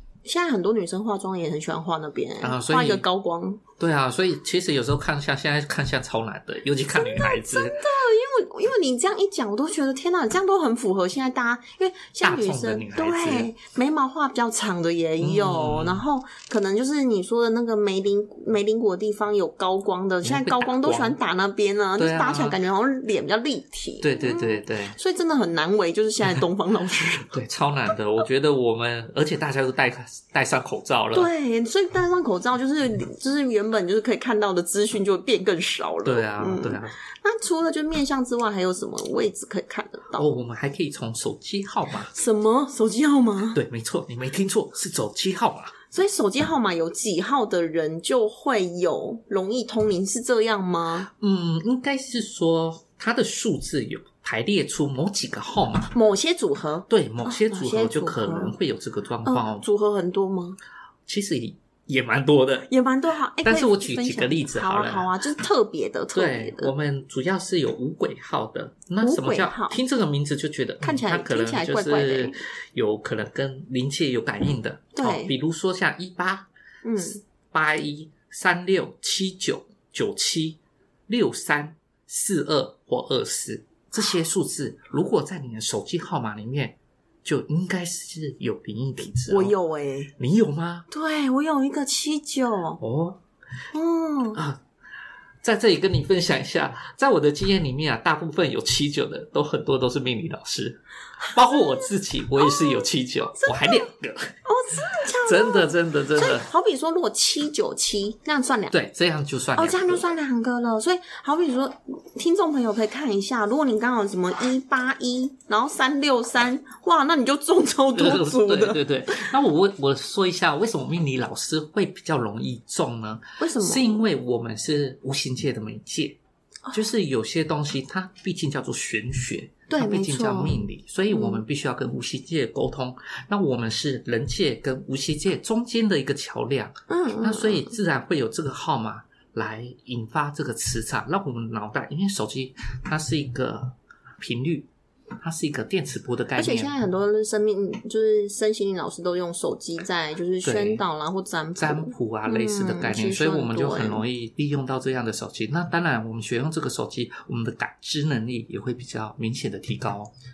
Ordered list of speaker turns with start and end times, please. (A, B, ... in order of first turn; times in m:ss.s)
0:00.2-0:03.6 A
0:02.4-0:03.0 B
0:03.8-0:07.8 B
0:06.9-0:27.3 A
0:12.2-0:13.5 B
0:15.2-0:16.0 B
0:20.2-0:21.2 B
0:22.0-0:22.6 B
0:24.0-0:25.0 B
0:27.3-0:31.3 B
0:31.1-0:40.3 A
0:36.0-0:37.0 B
0:40.1-0:42.1 B
0:42.1-0:43.6 A
0:43.5-0:45.8 B
0:45.9-0:51.1 A
0:51.2-0:55.9 B
0:55.9-0:58.5 A
0:56.9-0:59.6 B
0:59.2-1:00.6 A
1:01.1-1:02.7 B
1:02.7-1:06.7 A
1:03.4-1:05.1 B
1:06.1-1:16.5 B
1:09.0-1:09.8 A
1:10.8-1:12.4 A
1:15.0-1:15.3 A
1:16.8-1:17.2 A
1:17.5-1:29.5 B
1:29.3-1:30.1 A
1:30.2-1:30.9 B
1:30.9-1:32.8 A
1:32.8-1:33.2 B
1:33.7-1:34.4 A
1:34.4-1:34.6 B
1:35.4-1:44.4 B
1:41.2-1:43.9 A
1:44.4-1:48.8 A
1:44.9-1:46.5 B
1:48.7-1:50.0 B
1:49.6-1:59.2 A
1:57.9-2:06.2 B
2:03.4-2:04.0 A
2:06.7-2:24.7 B
2:09.7-2:11.4 A
2:16.9-2:17.7 A
2:25.2-2:26.8 B
2:26.4-2:34.0 A
2:30.4-2:30.8 B
2:31.6-2:40.1 B